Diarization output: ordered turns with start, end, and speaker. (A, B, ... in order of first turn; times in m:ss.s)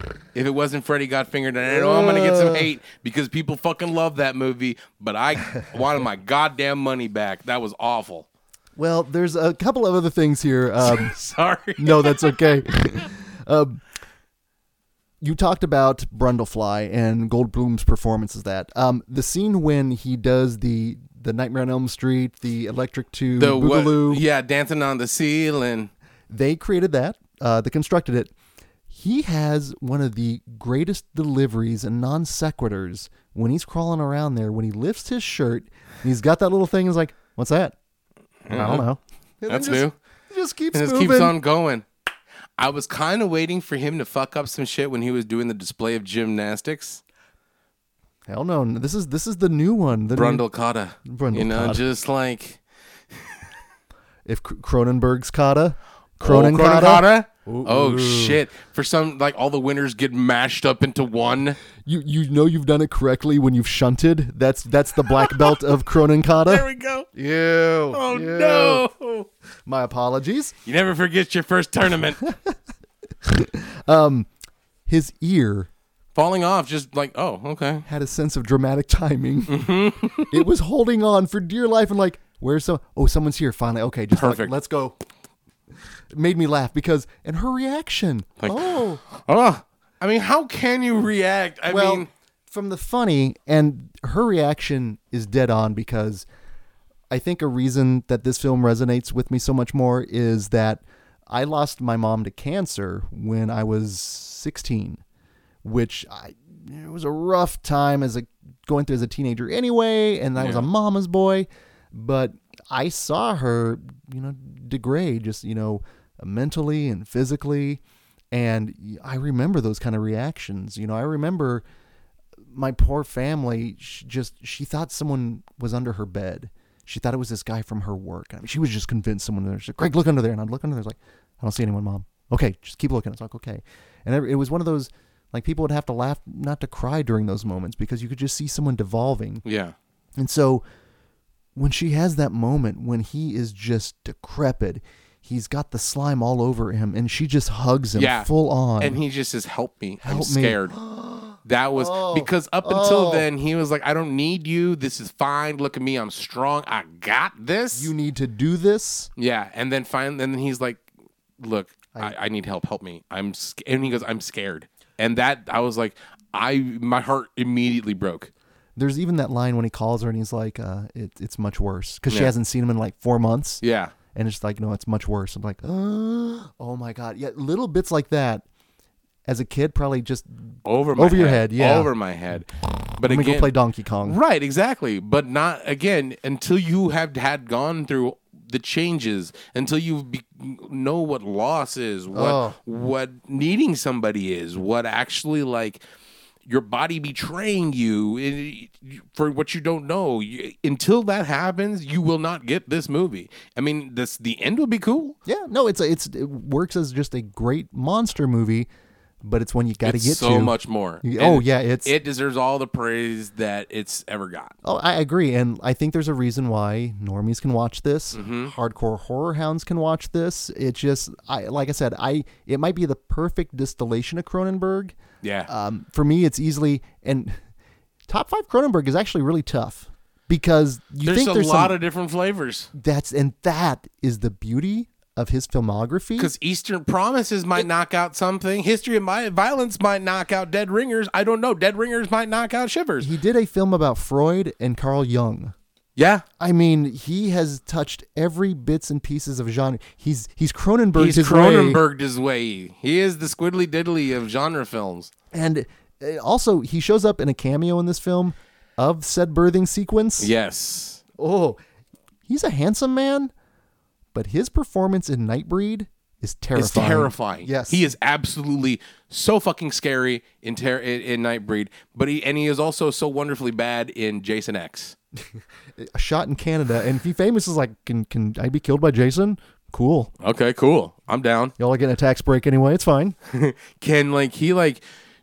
0:00.3-0:08.3 A
0:01.7-0:02.7 B
0:08.8-0:11.1 B
0:10.8-0:12.3 A
0:11.8-0:13.8 B
0:15.2-0:24.2 B
0:23.4-0:25.9 A
0:26.3-0:28.3 B
0:28.9-0:37.8 B
0:38.4-0:38.8 A
0:38.5-0:41.3 B
0:39.5-0:40.0 A
0:40.7-0:41.8 A
0:42.6-0:47.0 A
0:48.3-0:50.4 B
0:50.1-0:52.6 A
0:51.0-0:51.8 B
0:54.2-0:58.4 B
0:56.2-1:01.6 A
1:01.8-1:08.8 B
1:05.2-1:05.5 A
1:06.4-1:07.1 A
1:07.9-1:09.3 A
1:09.6-1:10.5 B
1:10.6-1:12.2 A
1:12.2-1:12.5 B
1:13.2-1:14.3 B
1:14.9-1:15.7 B
1:16.1-1:17.8 A
1:17.8-1:19.6 B
1:19.5-1:20.4 A
1:20.3-1:25.0 B
1:24.1-1:24.5 A
1:26.1-1:29.0 B
1:28.4-1:32.1 A
1:31.7-1:36.2 B
1:37.1-1:45.0 B
1:45.6-2:01.6 B
1:50.4-1:50.7 A
2:02.5-2:19.4 B
2:19.4-2:19.7 A
2:20.2-2:20.6 B
2:21.5-2:29.0 B
2:27.9-2:30.8 A
2:30.0-2:33.3 B
2:31.4-2:37.9 A
2:37.7-2:39.1 B
2:39.2-2:40.8 A
2:41.4-2:48.3 A
2:48.8-2:53.6 B
2:52.1-2:52.3 A
2:53.6-2:53.9 A
2:54.1-2:58.4 B
2:59.3-3:00.3 B
3:00.6-3:03.5 A
3:01.0-3:01.9 B
3:03.0-3:04.2 B
3:04.0-3:15.8 A
3:12.1-3:12.6 B
3:16.4-3:25.2 A
3:25.2-3:28.7 B
3:29.2-3:31.9 B
3:29.8-3:34.5 A
3:34.6-3:44.9 B
3:38.1-3:38.5 A
3:45.2-3:45.5 A
3:45.5-3:47.4 B
3:48.1-3:51.8 B
3:51.0-3:52.7 A
3:52.7-3:56.3 B
3:56.2-4:03.1 A
4:03.0-4:05.5 B
4:06.0-4:06.2 A
4:06.4-4:11.8 B
4:10.9-4:15.1 A
4:15.3-4:20.3 B
4:20.2-4:21.0 A
4:21.2-4:21.6 B
4:22.3-4:23.3 B
4:24.1-4:27.9 B
4:26.5-4:35.0 A
4:35.8-4:40.1 B
4:40.2-4:41.5 A
4:41.6-4:43.2 B
4:43.3-4:44.8 A